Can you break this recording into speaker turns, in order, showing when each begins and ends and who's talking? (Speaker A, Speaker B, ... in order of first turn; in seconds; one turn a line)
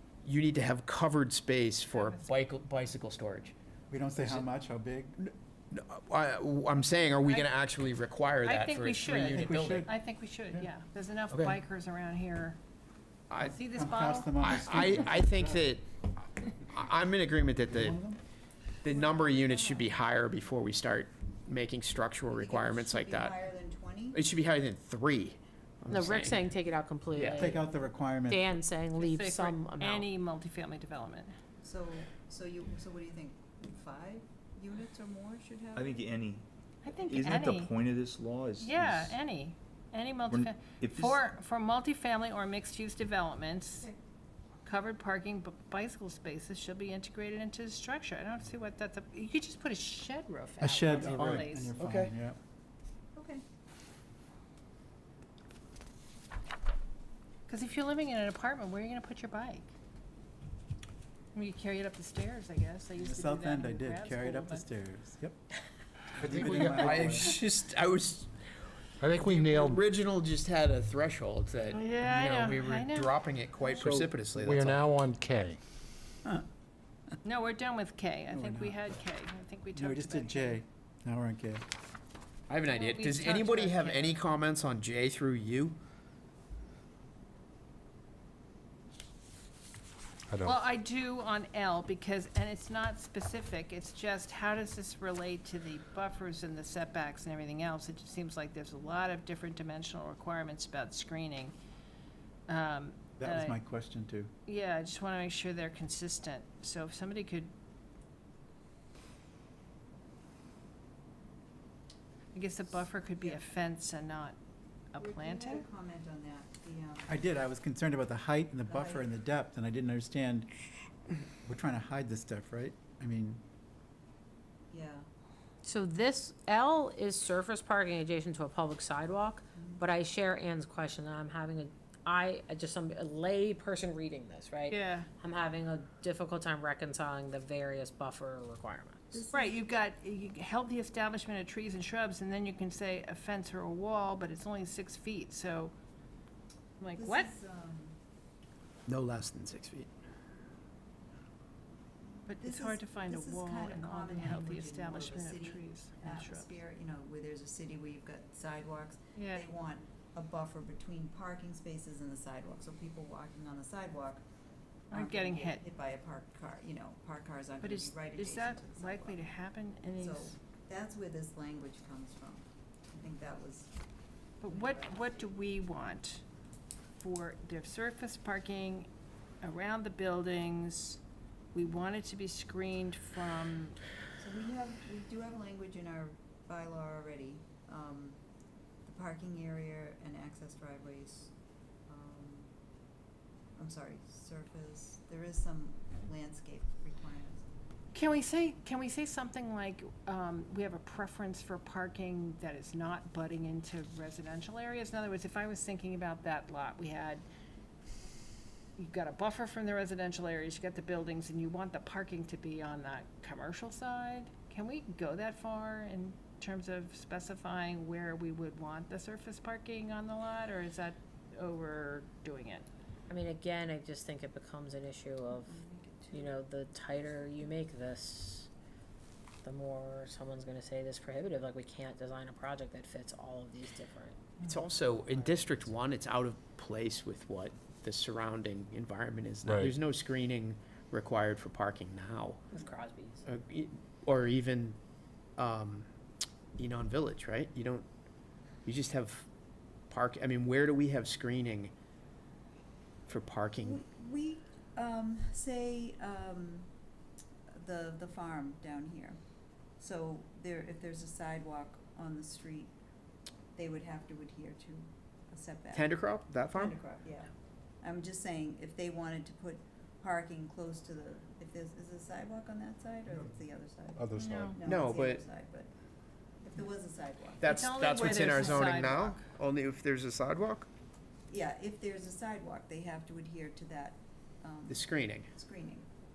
Speaker A: 0.2-3.5
Speaker B: 1.9-2.3
Speaker C: 3.9-5.2
Speaker A: 5.2-9.9
Speaker B: 8.4-12.6
Speaker C: 9.2-9.9
Speaker A: 11.3-11.6
Speaker A: 13.3-13.6
Speaker C: 13.4-15.7
Speaker B: 13.4-14.9
Speaker A: 14.4-18.0
Speaker C: 17.7-18.2
Speaker A: 18.8-23.4
Speaker D: 18.9-19.9
Speaker D: 22.3-24.2
Speaker A: 24.1-26.5
Speaker E: 25.9-27.6
Speaker A: 27.1-27.6
Speaker C: 27.4-28.5
Speaker E: 28.3-30.1
Speaker B: 28.9-31.3
Speaker D: 31.6-36.0
Speaker F: 35.8-39.2
Speaker B: 36.8-37.7
Speaker B: 38.6-43.9
Speaker F: 40.3-41.2
Speaker B: 44.6-51.7
Speaker C: 50.6-52.4
Speaker A: 51.8-52.1
Speaker D: 53.1-53.4
Speaker B: 57.5-59.7
Speaker B: 61.3-64.7
Speaker C: 63.0-65.4
Speaker C: 66.1-67.4
Speaker A: 66.2-68.3
Speaker G: 66.2-67.0
Speaker G: 69.0-69.8
Speaker A: 69.2-74.9
Speaker B: 71.7-73.1
Speaker G: 73.8-75.6
Speaker B: 77.2-80.6
Speaker C: 78.3-78.9
Speaker C: 79.8-81.7
Speaker A: 82.5-85.8
Speaker B: 82.7-84.2
Speaker G: 90.3-90.6
Speaker B: 90.4-101.5
Speaker B: 102.5-103.6
Speaker C: 103.2-104.3
Speaker B: 104.5-107.5
Speaker B: 112.3-114.4
Speaker B: 114.9-115.7
Speaker D: 115.0-117.2
Speaker C: 117.1-120.5
Speaker D: 118.7-119.1
Speaker C: 121.5-123.4
Speaker D: 124.7-125.1
Speaker E: 125.6-139.2
Speaker D: 129.6-129.9
Speaker B: 134.7-135.1
Speaker D: 139.1-139.6
Speaker B: 139.3-145.7
Speaker B: 146.8-147.3
Speaker D: 146.9-148.0
Speaker A: 148.9-149.9
Speaker B: 152.3-156.6
Speaker D: 152.4-164.2
Speaker B: 159.2-159.5
Speaker B: 164.9-165.6
Speaker D: 164.9-169.2
Speaker B: 167.6-170.4
Speaker D: 170.0-173.7
Speaker B: 174.4-176.2
Speaker D: 174.4-175.3
Speaker B: 177.0-178.9
Speaker B: 179.4-181.0
Speaker B: 181.5-183.8
Speaker D: 184.2-188.2
Speaker D: 188.8-191.3
Speaker D: 191.9-192.5
Speaker D: 193.6-197.4
Speaker B: 197.9-207.2
Speaker B: 208.8-222.7
Speaker E: 223.1-225.6
Speaker D: 225.4-226.4
Speaker E: 226.1-228.5
Speaker E: 229.4-234.3
Speaker A: 234.4-242.4
Speaker G: 239.4-239.7
Speaker E: 242.5-243.2
Speaker A: 243.2-244.8
Speaker A: 245.4-245.9
Speaker A: 246.6-247.9
Speaker A: 248.7-249.3
Speaker A: 249.9-251.7
Speaker A: 253.1-253.8
Speaker D: 253.6-256.7
Speaker D: 257.5-259.2
Speaker D: 259.8-262.7
Speaker D: 263.6-265.9
Speaker A: 265.7-266.8
Speaker D: 266.5-267.3
Speaker D: 267.8-275.7
Speaker C: 273.9-274.6
Speaker B: 274.2-274.6
Speaker A: 274.6-275.2
Speaker D: 276.4-278.9
Speaker A: 277.4-280.7
Speaker B: 277.4-279.2
Speaker D: 281.3-285.9
Speaker A: 284.7-285.3